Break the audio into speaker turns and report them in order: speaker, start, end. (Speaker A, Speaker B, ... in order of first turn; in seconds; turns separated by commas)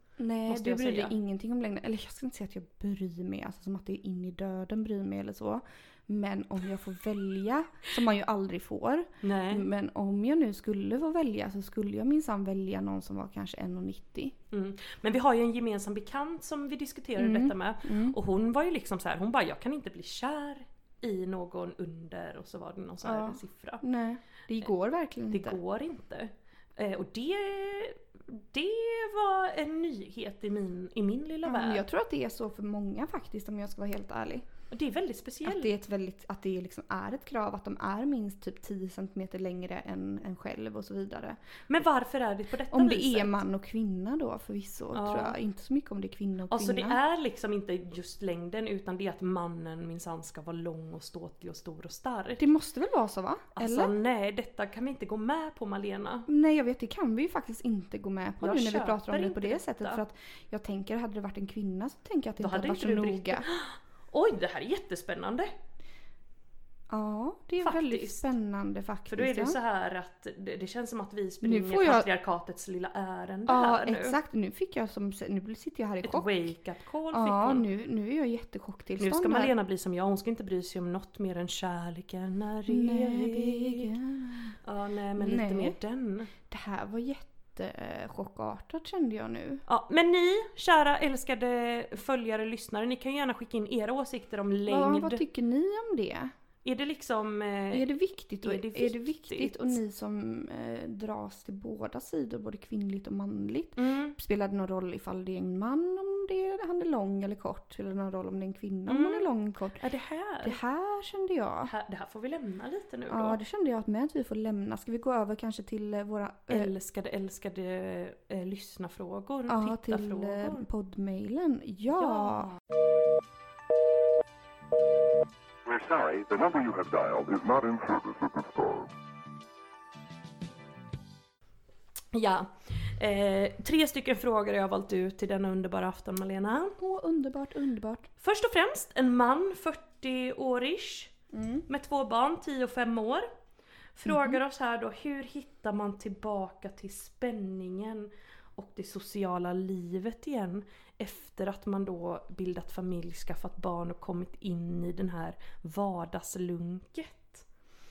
Speaker A: 0.2-14.3, Speaker B: 0.5-1.1, Speaker B: 9.2-9.7, Speaker B: 14.5-23.8, Speaker A: 17.2-18.2, Speaker A: 23.0-25.6, Speaker B: 25.3-31.8, Speaker A: 31.5-34.5, Speaker B: 34.7-35.7, Speaker A: 35.4-41.4, Speaker B: 41.7-43.3, Speaker A: 42.7-47.0, Speaker B: 44.9-45.4, Speaker B: 46.5-52.5, Speaker A: 52.4-53.9, Speaker B: 53.6-56.3, Speaker A: 56.3-63.5, Speaker B: 58.4-60.0, Speaker B: 62.4-65.5, Speaker A: 66.9-69.6, Speaker B: 67.6-68.3, Speaker B: 69.1-74.2, Speaker A: 71.4-72.1, Speaker A: 73.5-76.5, Speaker B: 76.0-77.7, Speaker A: 77.1-79.5, Speaker B: 79.0-83.9, Speaker A: 82.7-84.6, Speaker B: 84.7-86.3, Speaker A: 85.2-85.8, Speaker A: 86.5-89.6, Speaker B: 89.7-95.2, Speaker A: 94.7-96.3, Speaker B: 96.7-99.8, Speaker A: 97.7-109.8, Speaker B: 103.8-104.2, Speaker B: 108.9-109.3, Speaker B: 109.8-110.6, Speaker A: 110.4-111.7, Speaker B: 111.7-113.4, Speaker A: 113.1-116.7, Speaker B: 116.5-120.7, Speaker A: 119.5-122.5, Speaker B: 122.0-122.6, Speaker C: 125.7-128.9, Speaker B: 132.1-136.8, Speaker A: 136.8-138.1, Speaker B: 138.2-141.2, Speaker A: 141.3-141.7, Speaker B: 141.7-143.3, Speaker B: 143.9-157.4, Speaker A: 144.1-144.4